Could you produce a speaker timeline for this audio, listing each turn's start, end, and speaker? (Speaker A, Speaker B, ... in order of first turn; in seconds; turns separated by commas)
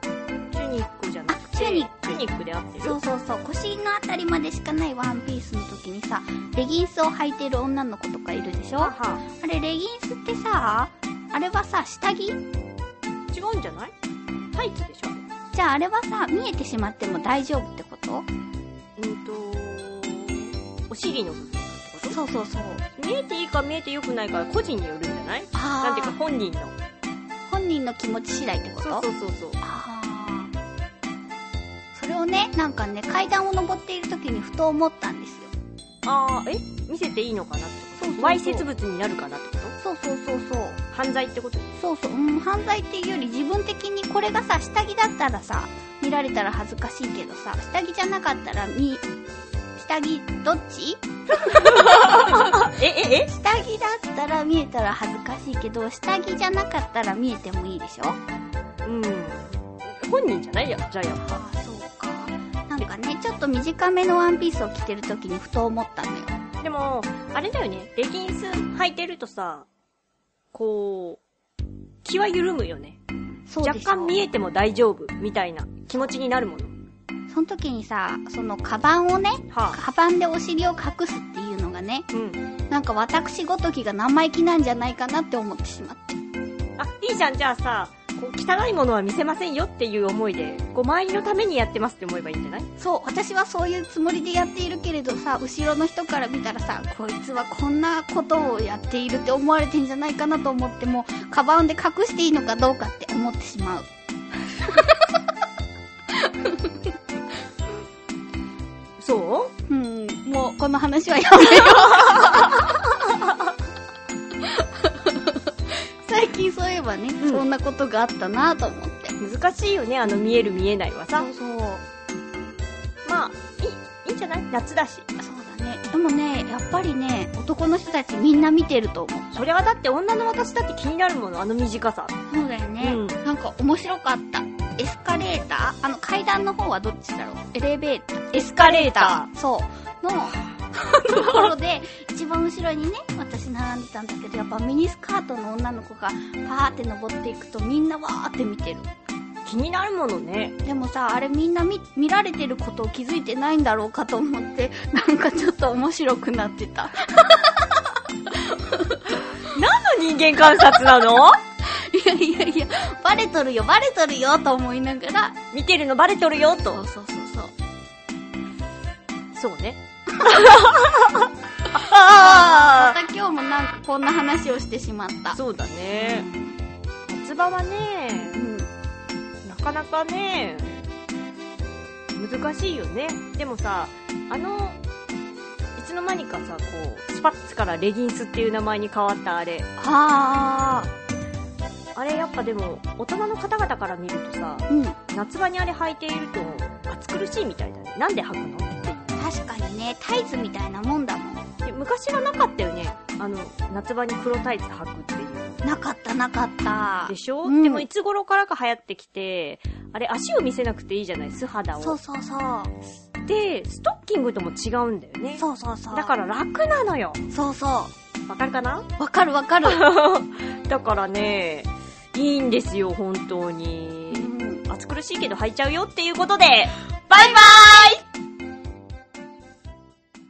Speaker A: 0.5-3.0, Speaker B: 1.3-2.2, Speaker B: 2.8-12.4, Speaker A: 8.8-9.2, Speaker A: 13.3-13.9, Speaker A: 14.5-15.2, Speaker B: 15.5-18.3, Speaker A: 19.0-22.2, Speaker B: 22.0-22.8, Speaker A: 23.0-26.7, Speaker B: 25.5-26.2, Speaker B: 27.5-29.1, Speaker A: 28.8-29.6, Speaker B: 29.6-30.5, Speaker B: 31.9-35.5, Speaker A: 36.0-39.8, Speaker B: 38.0-38.7, Speaker B: 39.8-40.8, Speaker A: 40.9-41.7, Speaker B: 41.8-49.0, Speaker B: 49.8-52.7, Speaker A: 51.4-53.3, Speaker B: 53.2-58.2, Speaker A: 58.9-61.4, Speaker B: 61.2-66.4, Speaker A: 66.6-69.7, Speaker A: 70.5-71.2, Speaker A: 72.0-73.0, Speaker B: 73.5-74.2, Speaker A: 73.6-76.7, Speaker B: 77.3-82.1, Speaker A: 79.5-79.8, Speaker A: 82.1-82.4, Speaker B: 82.7-86.2, Speaker A: 86.8-92.7, Speaker B: 92.8-103.9, Speaker B: 106.2-106.8, Speaker A: 109.0-109.5, Speaker B: 109.7-112.8, Speaker B: 114.5-119.2, Speaker A: 119.2-121.3, Speaker B: 121.2-121.8, Speaker A: 123.0-125.1, Speaker B: 125.2-129.3, Speaker A: 129.3-132.1, Speaker B: 132.3-148.9, Speaker A: 132.8-133.2, Speaker A: 138.4-139.3, Speaker A: 141.1-141.5, Speaker A: 149.4-150.6, Speaker B: 150.6-159.2, Speaker A: 159.4-161.4, Speaker B: 161.6-165.4, Speaker A: 165.5-166.8, Speaker B: 166.7-167.5, Speaker A: 169.3-173.0, Speaker B: 172.1-175.4, Speaker A: 175.3-176.3, Speaker B: 175.9-176.6, Speaker A: 177.1-178.4, Speaker B: 178.2-178.7, Speaker A: 179.4-180.8, Speaker A: 182.1-184.8, Speaker A: 185.8-189.7, Speaker B: 189.8-190.9, Speaker A: 191.9-199.2, Speaker B: 194.7-195.0, Speaker B: 199.2-201.4, Speaker A: 201.6-205.6, Speaker B: 205.6-207.9, Speaker A: 207.1-212.0, Speaker B: 211.8-212.8, Speaker A: 213.3-217.2, Speaker B: 215.4-216.2, Speaker B: 217.3-217.9, Speaker A: 218.3-218.9, Speaker B: 219.0-219.9, Speaker A: 219.6-228.0, Speaker B: 224.1-224.6, Speaker B: 227.1-228.0